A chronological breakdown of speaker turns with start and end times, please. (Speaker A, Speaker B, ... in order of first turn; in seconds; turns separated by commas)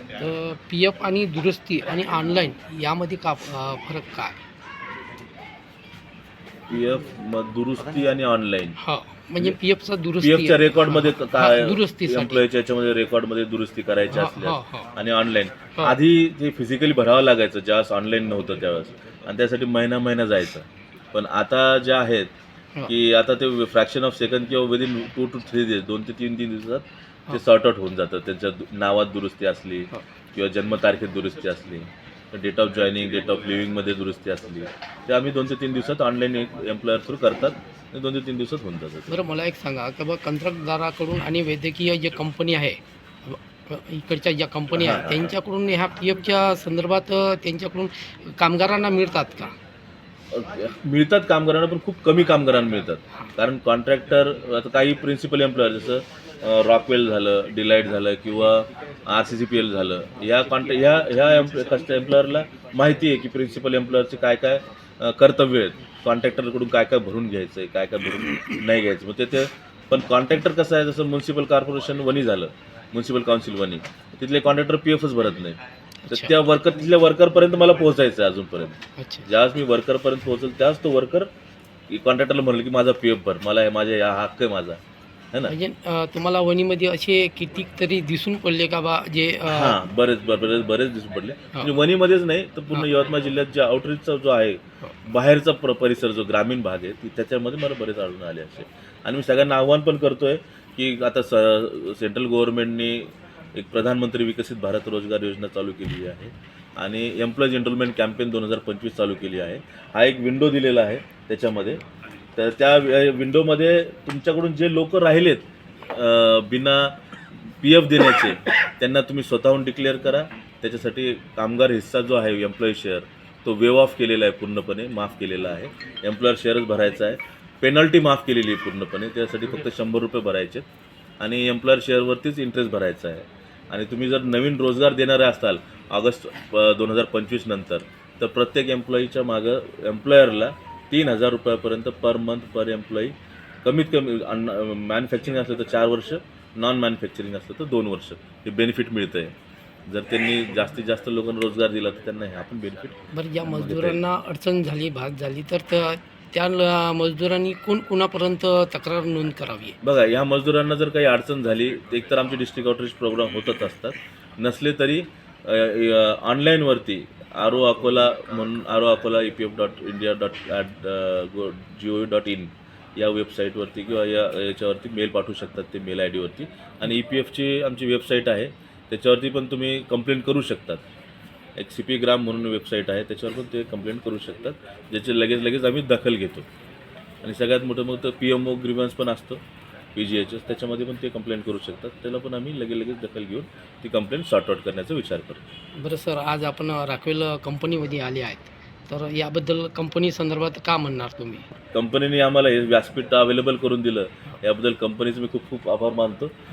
Speaker A: 0.2-4.4, Speaker B: 6.7-8.8, Speaker A: 8.8-12.4, Speaker B: 10.2-22.3, Speaker A: 14.1-14.9, Speaker B: 22.9-39.2, Speaker A: 39.1-49.5, Speaker B: 44.7-45.3, Speaker B: 50.3-75.6, Speaker A: 76.0-76.3, Speaker B: 76.1-81.3, Speaker A: 79.0-79.3, Speaker B: 81.9-84.8, Speaker A: 85.5-89.8, Speaker B: 89.5-111.8, Speaker B: 112.4-130.7, Speaker B: 131.2-149.3, Speaker B: 149.9-154.0, Speaker A: 153.1-159.8, Speaker B: 159.8-180.8, Speaker B: 181.6-186.5, Speaker B: 187.2-189.4, Speaker B: 189.9-195.4, Speaker A: 195.8-201.5, Speaker B: 201.7-206.3